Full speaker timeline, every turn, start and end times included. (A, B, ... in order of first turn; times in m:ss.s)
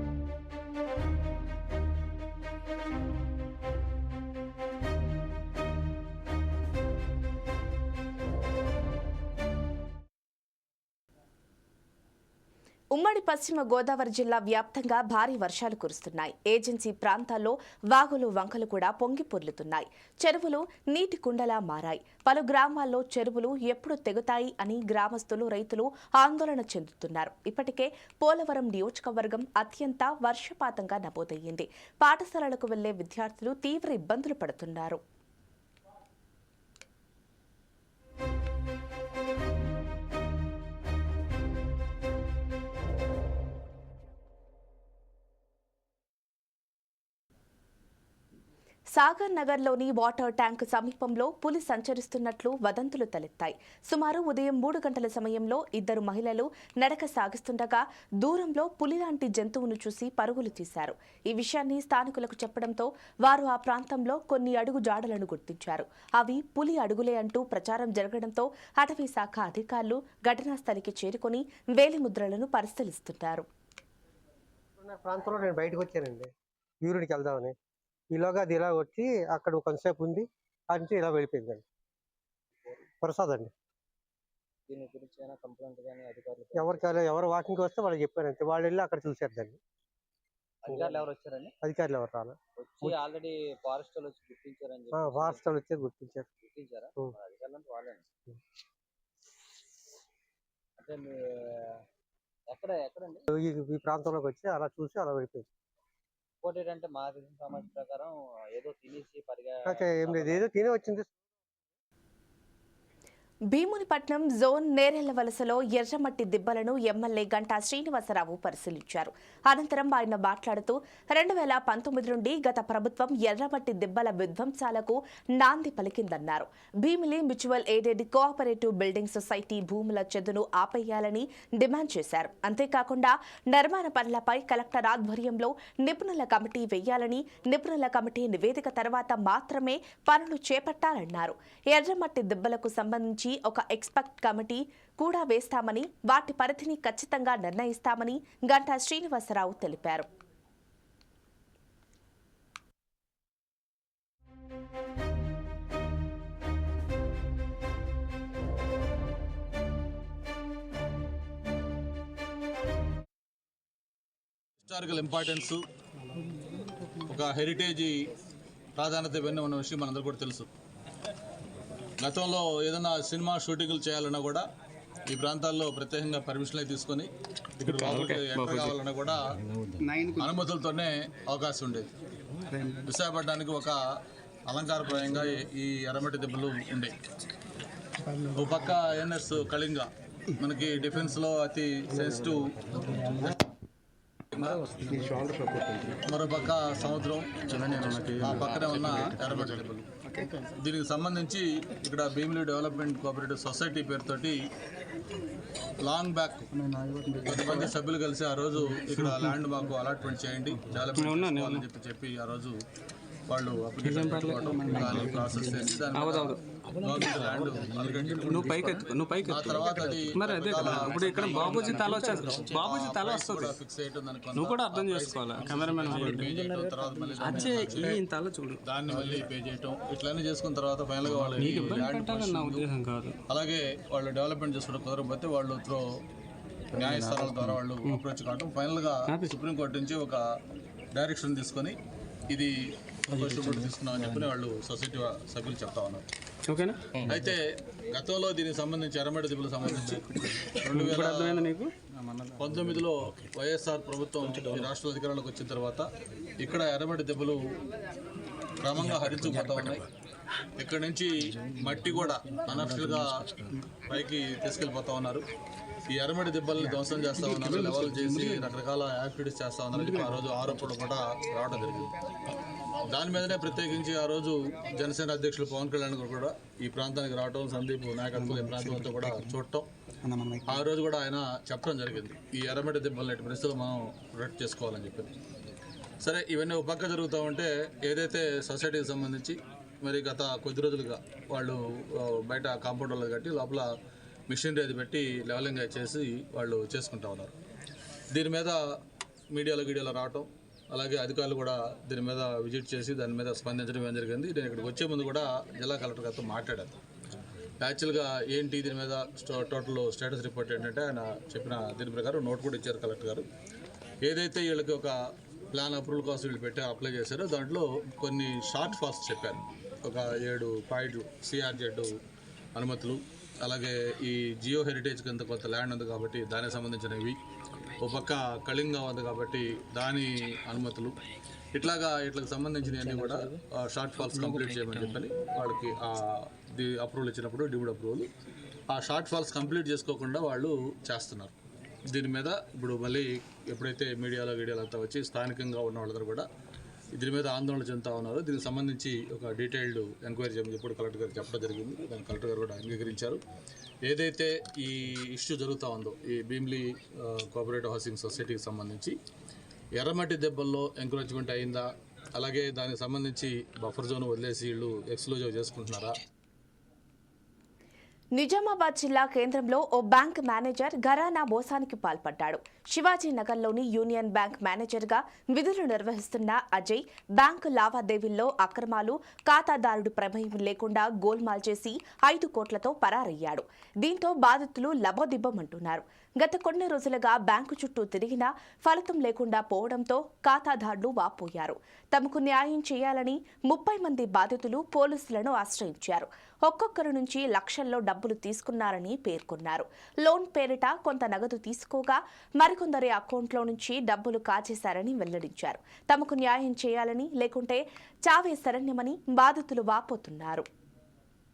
0:13.0-0:35.0 A
0:48.9-1:13.5 A
1:14.8-1:16.3 B
1:16.8-1:17.6 B
1:18.2-1:21.6 B
1:23.0-1:23.5 B
1:24.7-1:26.8 C
1:26.6-1:29.6 B
1:30.6-1:31.6 C
1:30.7-1:31.0 B
1:31.6-1:33.0 B
1:32.6-1:35.4 C
1:34.9-1:36.3 B
1:36.4-1:38.0 C
1:40.8-1:41.8 C
1:42.5-1:43.3 C
1:43.3-1:45.5 B
1:46.4-1:50.5 C
1:49.7-1:51.2 B
1:53.5-2:30.1 A
2:44.6-2:45.6 D
2:47.0-2:48.0 D
2:48.8-2:50.5 D
2:52.0-2:54.5 D
2:55.1-2:59.2 D
2:57.6-2:58.8 E
2:59.8-3:00.3 E
3:00.2-3:01.9 D
3:02.9-3:03.8 D
3:04.5-3:07.0 D
3:08.3-3:13.3 D
3:14.3-3:15.2 D
3:16.0-3:19.9 D
3:20.6-3:24.5 D
3:25.8-3:26.6 D
3:27.1-3:27.7 E
3:27.2-3:32.6 D
3:31.0-3:31.6 E
3:33.3-3:48.0 D
3:33.8-3:37.0 E
3:38.2-3:43.6 E
3:44.4-3:46.6 E
3:47.2-3:48.6 E
3:48.6-3:52.7 D
3:51.0-3:53.2 E
3:53.3-3:55.9 D
3:56.8-4:00.2 D
3:56.8-3:57.3 E
3:59.1-3:59.3 E
4:00.9-4:01.8 D
4:02.3-4:06.1 D
4:06.5-4:07.2 E
4:07.1-4:07.4 D
4:08.0-4:11.5 D
4:10.7-4:11.7 E
4:12.4-4:15.9 D
4:16.4-4:17.4 D
4:18.6-4:19.9 D
4:20.6-4:23.3 D
4:23.9-4:25.2 D
4:25.9-4:31.9 D
4:27.4-4:28.4 E
4:32.9-4:39.7 D
4:40.1-4:40.4 E
4:40.5-4:45.1 D
4:46.0-4:53.7 D
4:54.3-4:57.3 D
4:58.1-4:58.8 D
4:59.3-5:06.8 D
5:07.6-5:13.3 D
5:14.0-5:15.0 D
5:15.5-5:22.0 D
5:22.6-5:27.2 D
5:27.8-5:31.0 D
5:31.5-5:38.1 D
5:38.7-5:41.3 D
5:41.9-5:46.3 D
5:47.0-5:53.2 D
5:53.8-5:59.0 D
5:59.8-6:06.0 D
6:08.2-6:50.5 A